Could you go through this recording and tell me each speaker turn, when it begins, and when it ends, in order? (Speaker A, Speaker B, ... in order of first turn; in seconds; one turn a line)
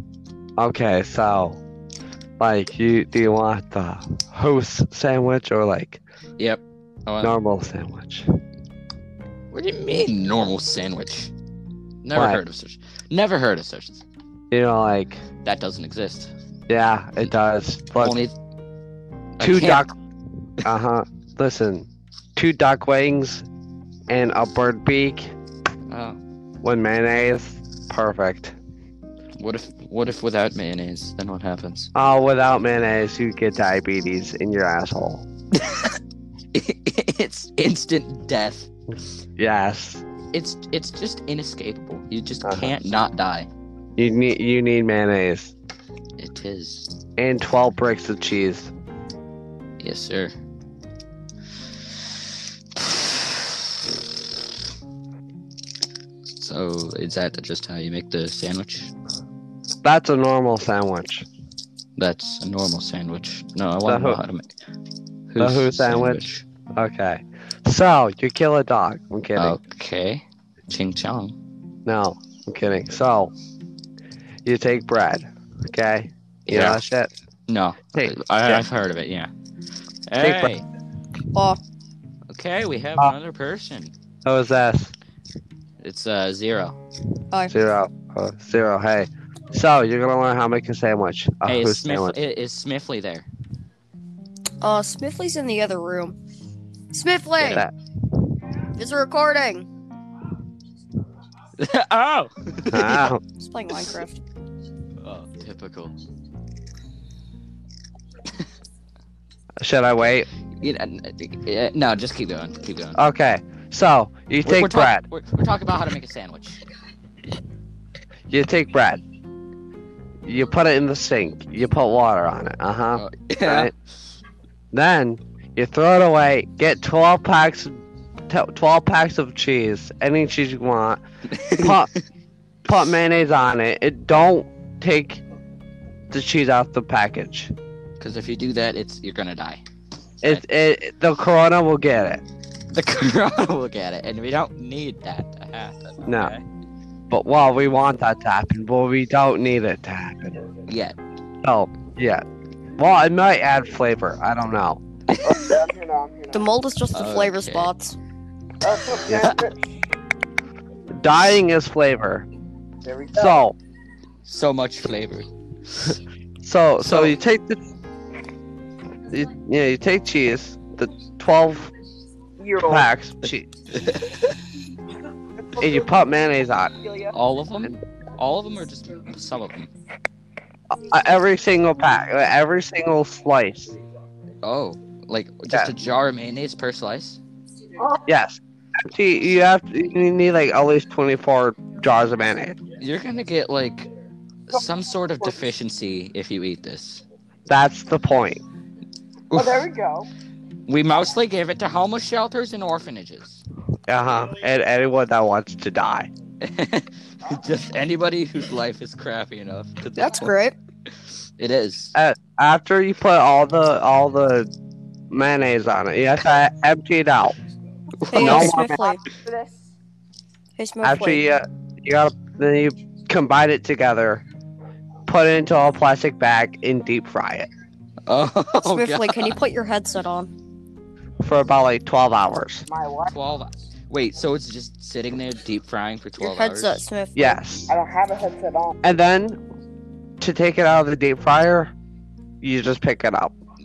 Speaker A: 0.6-1.6
Speaker A: 2.4-6.0
Speaker B: 6.4-7.3
Speaker A: 7.2-8.3
Speaker B: 9.5-11.3
Speaker B: 12.0-14.0
Speaker A: 12.2-12.4
Speaker A: 14.5-15.2
Speaker B: 15.4-16.3
Speaker A: 16.7-18.2
Speaker B: 18.0-18.3
Speaker B: 19.4-19.9
Speaker A: 19.4-19.9
Speaker A: 20.6-23.4
Speaker A: 24.1-25.3
Speaker B: 25.9-26.2
Speaker A: 26.6-28.6
Speaker B: 29.4-31.9
Speaker A: 31.9-35.2
Speaker B: 35.5-36.0
Speaker B: 36.5-38.7
Speaker A: 39.4-40.0
Speaker B: 40.3-43.5
Speaker A: 42.4-42.7
Speaker A: 44.0-45.5
Speaker B: 46.2-46.9
Speaker A: 47.2-48.7
Speaker B: 49.8-50.3
Speaker B: 52.8-53.6
Speaker B: 56.3-58.9
Speaker A: 59.8-61.3
Speaker B: 62.0-64.5
Speaker A: 63.9-64.2
Speaker B: 65.3-66.4
Speaker A: 65.4-66.2
Speaker A: 66.8-69.6
Speaker B: 69.4-71.4
Speaker A: 71.9-73.3
Speaker A: 74.5-77.1
Speaker B: 76.5-76.8
Speaker B: 77.5-79.3
Speaker A: 77.9-78.6
Speaker B: 80.1-80.6
Speaker A: 80.2-80.5
Speaker C: 81.3-81.6
Speaker B: 82.3-83.9
Speaker A: 84.2-84.9
Speaker B: 85.8-86.8
Speaker A: 87.5-92.2
Speaker B: 91.5-93.3
Speaker C: 94.6-96.2
Speaker C: 96.9-97.7
Speaker A: 97.4-97.7
Speaker C: 98.8-99.7
Speaker B: 101.6-103.1
Speaker A: 102.7-103.2
Speaker C: 103.4-104.2
Speaker B: 105.0-106.0
Speaker A: 109.6-110.3
Speaker B: 110.6-113.0
Speaker A: 113.0-115.0
Speaker B: 114.5-116.6
Speaker A: 118.3-119.0
Speaker A: 120.2-123.7
Speaker B: 123.0-123.7
Speaker A: 124.7-131.9
Speaker B: 131.3-132.0
Speaker A: 132.7-135.2
Speaker A: 136.1-137.5
Speaker B: 138.0-139.6
Speaker A: 140.2-142.2
Speaker B: 142.7-146.4
Speaker A: 146.1-146.3
Speaker A: 147.1-150.4
Speaker B: 150.7-151.0
Speaker A: 151.4-152.2
Speaker A: 152.8-154.8
Speaker B: 155.1-155.4
Speaker D: 155.2-156.5
Speaker C: 156.3-158.0
Speaker B: 156.9-157.7
Speaker D: 158.6-159.6
Speaker A: 161.0-162.3
Speaker D: 162.8-163.4
Speaker A: 163.2-163.6
Speaker B: 164.2-166.0
Speaker A: 166.4-167.6
Speaker B: 166.8-167.2
Speaker A: 169.1-171.7
Speaker D: 172.4-172.9
Speaker A: 172.6-173.5
Speaker B: 173.8-174.3
Speaker A: 175.6-176.7
Speaker D: 176.8-177.1
Speaker B: 177.1-179.7
Speaker A: 180.7-183.7
Speaker B: 184.4-187.2
Speaker A: 188.1-192.6
Speaker B: 192.8-193.9
Speaker B: 194.5-197.0
Speaker A: 197.5-198.4
Speaker B: 199.3-199.6
Speaker D: 199.3-200.1
Speaker B: 200.7-203.4
Speaker A: 203.9-206.1
Speaker B: 206.4-210.3
Speaker C: 210.0-210.6
Speaker B: 211.4-211.9
Speaker A: 211.9-214.5
Speaker A: 215.1-217.4
Speaker A: 218.1-218.8
Speaker C: 218.1-219.0
Speaker D: 218.2-219.7
Speaker C: 220.6-221.2
Speaker A: 220.8-224.2
Speaker A: 225.1-227.5
Speaker B: 228.1-229.4
Speaker C: 228.6-230.3
Speaker A: 231.2-232.7
Speaker D: 232.7-233.2
Speaker B: 233.1-236.8
Speaker C: 236.2-237.4
Speaker A: 237.2-237.7
Speaker D: 237.7-238.8
Speaker A: 238.8-239.4
Speaker A: 240.2-241.7
Speaker A: 242.4-243.3